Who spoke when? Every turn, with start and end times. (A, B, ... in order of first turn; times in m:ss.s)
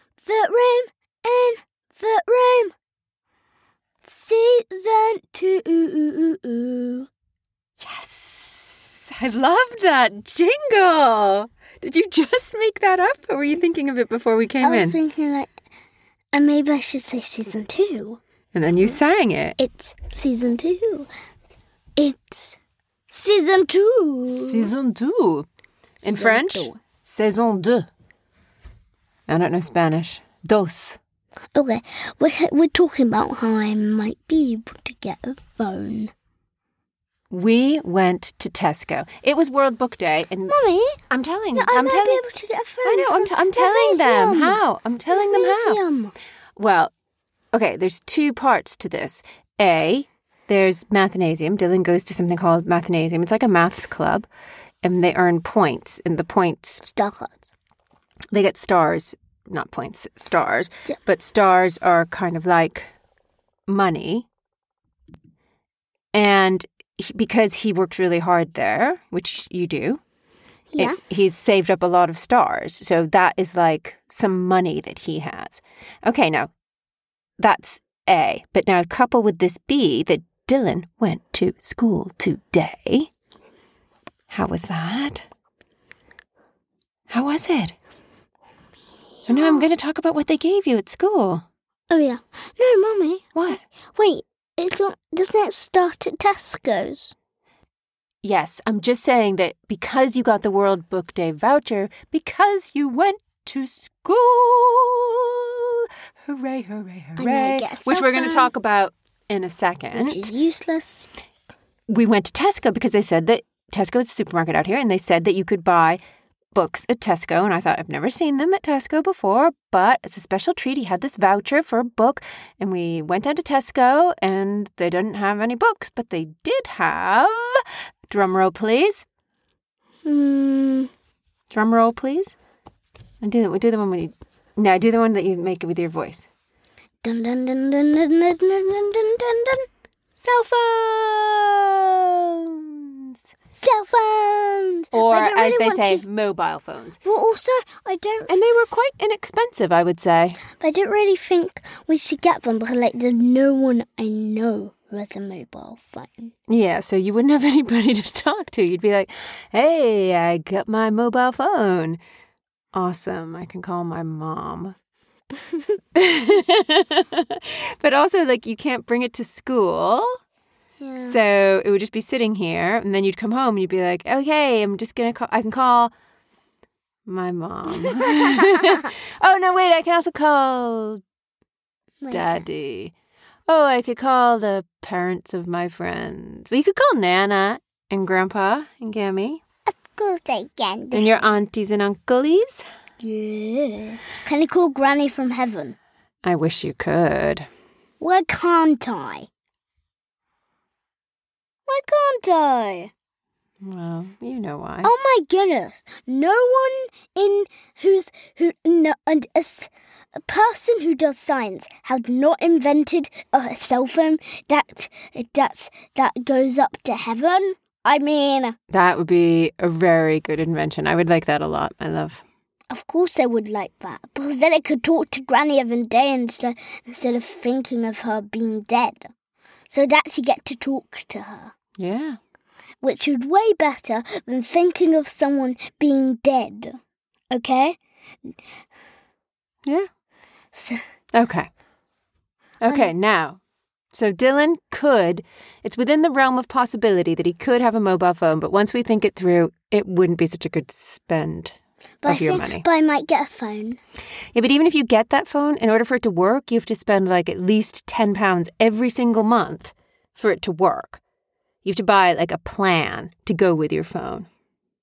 0:00.2-0:02.7 A
0:04.0-0:07.1 A
0:07.8-0:15.0 B
0:14.6-0:15.5 A
0:16.3-0:18.2 A
0:18.5-0:19.6 B
0:19.6-0:21.1 A
0:22.0-0:22.6 A
0:23.1-0:24.7 A
0:24.3-0:25.5 B
0:26.0-0:27.9 B
0:26.0-0:26.8 A
0:29.3-0:31.0 B
0:31.6-0:36.1 A
0:37.3-0:40.6 B
0:40.5-0:41.0 A
0:41.1-0:42.2 B
0:41.6-0:46.1 A
0:42.8-0:45.8 B
0:46.6-0:46.9 B
0:47.5-0:54.3 B
0:54.8-0:56.8 B
0:56.9-0:57.4 A
0:58.3-1:02.9 B
1:03.7-1:04.3 B
1:06.1-1:10.0 B
1:10.7-1:11.0 A
1:10.8-1:16.5 B
1:17.4-1:23.1 B
1:24.3-1:25.2 B
1:27.1-1:27.8 B
1:29.3-1:29.7 A
1:29.3-1:31.4 B
1:31.9-1:33.3 A
1:33.4-1:33.6 B
1:33.9-1:37.1 A
1:38.2-1:50.3 B
1:47.2-1:48.5 A
1:49.9-1:51.1 A
1:51.9-1:56.0 B
1:56.5-2:09.0 B
2:10.0-2:10.9 A
2:11.5-2:12.3 B
2:13.2-2:16.3 B
2:17.0-2:19.7 A
2:20.2-2:23.2 B
2:23.5-2:26.0 A
2:24.9-2:27.0 B
2:27.0-2:28.3 A
2:28.3-2:30.4 B
2:30.6-2:36.3 A
2:36.5-2:42.0 B
2:42.7-2:44.8 B
2:46.0-2:50.2 B
2:50.8-2:51.2 A
2:51.0-2:55.9 B
2:57.1-3:01.0 B
3:02.0-3:02.4 A
3:02.1-3:02.9 B
3:03.5-3:09.4 B
3:09.7-3:11.3 A
3:10.9-3:12.6 B
3:13.0-3:15.8 A
3:16.2-3:17.5 B
3:18.0-3:19.3 A
3:21.7-3:22.9 A
3:23.6-3:24.9 B
3:24.8-3:38.6 A
3:38.7-3:42.2 B
3:42.7-3:49.1 A
3:49.7-3:51.5 A
3:51.8-3:52.2 B
3:52.8-3:56.8 A
3:57.3-3:58.4 A
4:00.5-4:00.8 A
4:01.1-4:01.5 B
4:02.6-4:03.4 B
4:03.9-4:12.6 B
4:12.0-4:13.8 A
4:14.3-4:21.0 B
4:21.6-4:24.3 B